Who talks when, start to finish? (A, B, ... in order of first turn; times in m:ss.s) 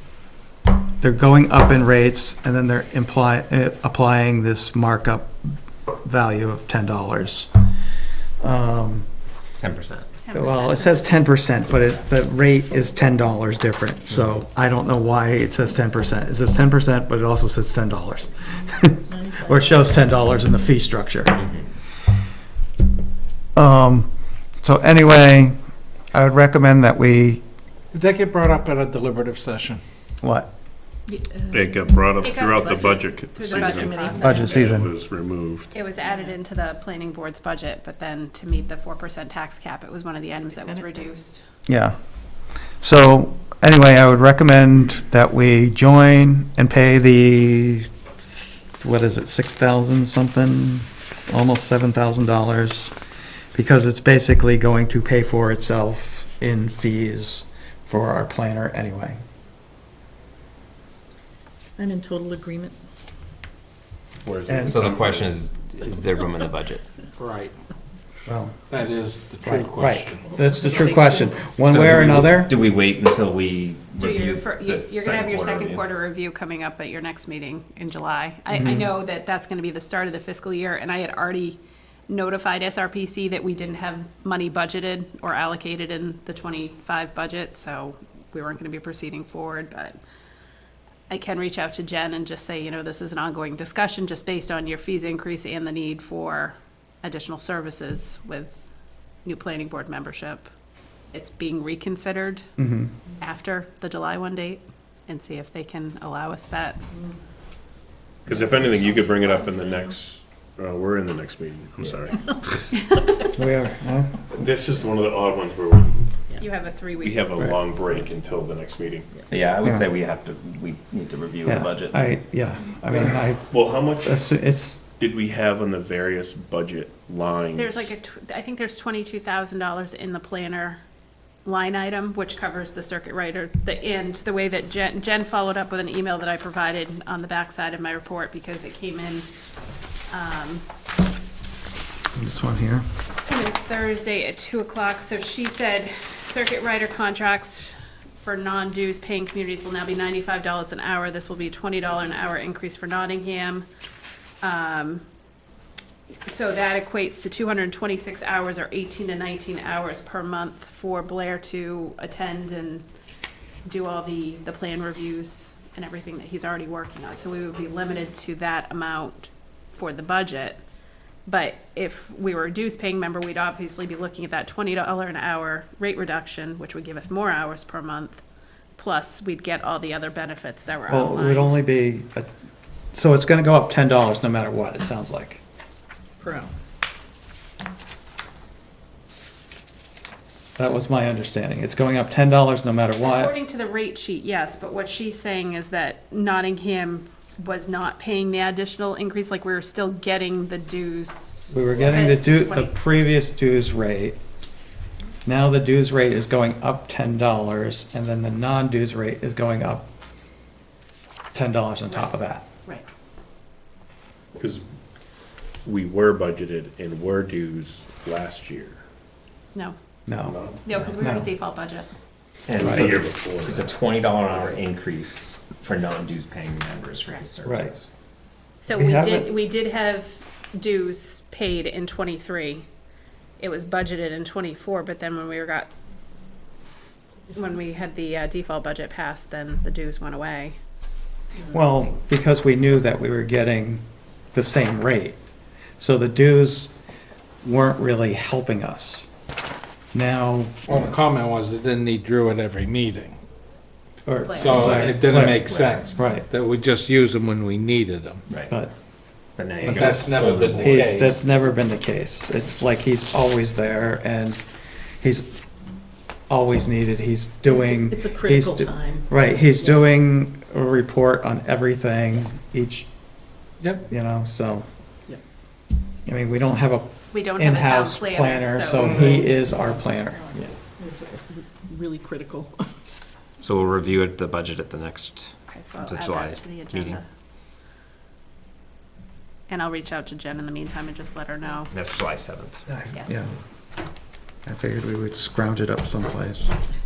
0:01.0-0:07.5 A
0:08.4-0:09.1 A
0:09.6-0:10.1 B
0:10.2-0:11.3 C
0:10.3-0:21.5 A
0:19.1-0:19.9 D
0:23.6-0:24.1 A
0:24.6-0:25.6 A
0:26.1-0:27.4 A
0:27.9-0:29.8 E
0:30.2-0:30.5 A
0:31.1-0:31.8 D
0:31.5-0:35.7 F
0:32.2-0:34.6 C
0:33.5-0:34.5 D
0:34.1-0:34.9 A
0:35.7-0:41.4 C
0:41.7-0:42.0 A
0:42.8-0:53.0 A
0:53.5-0:59.2 A
1:01.8-1:02.8 D
1:04.2-1:05.4 F
1:04.5-1:04.8 A
1:04.7-1:06.8 B
1:07.2-1:07.5 E
1:08.3-1:08.6 A
1:08.7-1:10.4 E
1:09.4-1:12.6 A
1:10.6-1:11.0 D
1:11.7-1:15.8 B
1:11.7-1:12.3 E
1:14.0-1:30.0 C
1:18.5-1:18.9 A
1:31.1-1:38.6 C
1:39.2-1:40.5 C
1:41.1-1:42.5 C
1:42.6-1:42.9 A
1:43.2-1:46.8 C
1:48.3-1:52.6 F
1:53.3-1:54.4 A
1:54.3-1:56.2 F
1:56.4-1:57.3 C
1:57.0-1:59.1 F
1:59.3-2:02.1 B
2:01.4-2:04.8 A
2:03.5-2:04.2 F
2:05.0-2:07.9 F
2:07.6-2:10.8 C
2:11.4-2:19.3 C
2:20.1-2:20.6 C
2:22.2-2:22.8 A
2:23.3-2:33.7 C
2:34.4-2:35.0 C
2:36.3-2:42.8 C
2:43.6-2:50.6 C
2:51.3-2:58.2 C
2:58.8-3:01.6 C
3:00.9-3:02.3 A
3:02.9-3:05.4 A
3:06.2-3:06.5 D
3:10.6-3:13.3 A
3:13.0-3:22.7 C
3:21.5-3:24.2 A
3:25.3-3:29.9 A
3:31.3-3:32.5 A
3:31.9-3:32.9 C
3:34.4-3:34.6 F
3:35.6-3:38.8 F
3:40.1-3:41.3 A
3:40.2-3:40.6 F
3:40.6-3:41.9 C
3:42.5-3:47.9 B
3:42.5-3:44.6 F
3:47.4-3:47.9 A
3:48.6-3:52.7 C
3:48.7-3:49.3 A
3:53.4-3:55.7 C
3:57.3-4:00.6 C
4:01.5-4:05.2 A
4:05.8-4:06.7 A
4:07.4-4:09.1 A
4:09.9-4:10.9 A
4:10.6-4:13.2 E
4:14.0-4:16.3 A
4:14.2-4:15.0 C
4:14.4-4:18.2 E
4:14.9-4:15.9 B
4:19.4-4:20.9 B
4:19.6-4:24.4 A
4:19.6-4:21.2 E
4:25.0-4:25.4 A
4:26.3-4:32.9 A
4:27.4-4:29.2 D
4:33.9-4:34.7 A
4:36.1-4:40.2 A
4:37.1-4:39.3 C
4:40.8-4:42.7 D
4:43.4-4:47.0 B
4:45.5-4:47.0 C
4:49.5-4:51.7 C
4:51.7-4:52.6 B
4:52.7-4:53.3 A
4:52.9-4:53.3 C
4:54.5-4:56.5 A